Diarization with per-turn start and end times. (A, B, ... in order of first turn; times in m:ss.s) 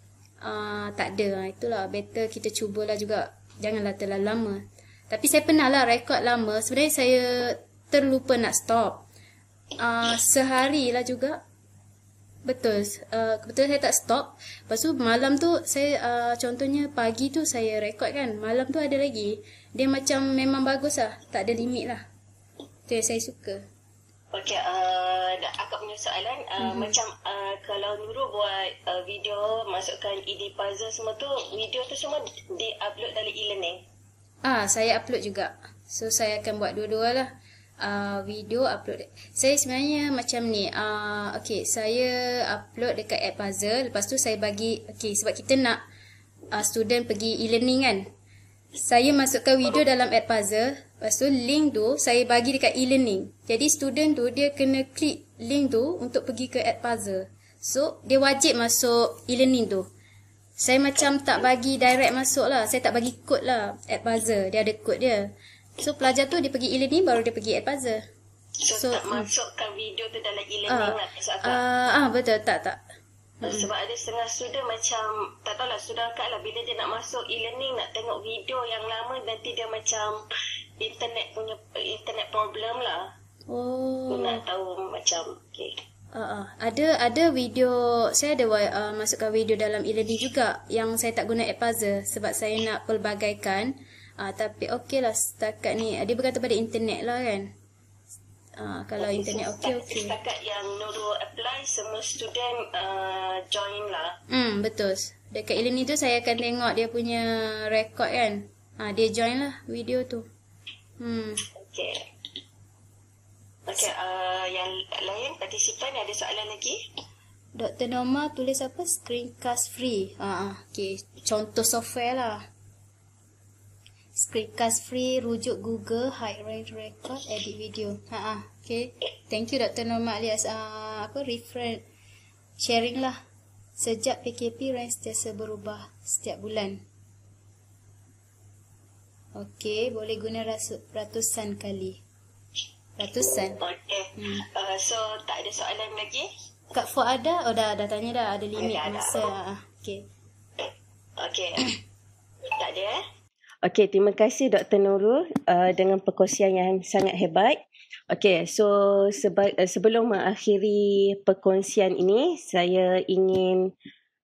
0:00.4-0:09.0 A
0:09.8-0:11.4 A
0:12.4-0:22.0 A
0:22.9-0:23.6 A
0:24.3-0:33.8 B
0:26.6-0:27.0 A
0:34.4-0:45.8 A
0:46.5-0:48.1 A
0:48.8-0:59.9 A
1:00.6-1:08.0 A
1:08.6-1:11.6 B
1:08.7-1:09.3 A
1:10.7-1:12.8 A
1:13.4-1:13.7 A
1:13.4-1:20.2 B
1:20.8-1:23.1 B
1:23.5-1:24.4 A
1:24.1-1:25.7 B
1:26.1-1:37.5 A
1:38.6-1:40.1 A
1:39.0-1:44.2 B
1:44.3-1:50.3 A
1:51.0-1:51.4 A
1:51.5-1:52.0 B
1:53.7-1:56.8 B
1:57.6-2:02.4 A
2:04.1-2:11.8 A
2:12.6-2:13.2 A
2:13.8-2:16.8 A
2:19.4-2:22.0 A
2:23.0-2:23.6 A
2:23.6-2:26.3 B
2:24.2-2:24.4 A
2:26.7-2:30.0 A
2:28.6-2:29.2 B
2:31.2-2:31.6 B
2:32.6-2:33.0 B
2:33.6-2:37.6 C
2:38.1-2:43.7 C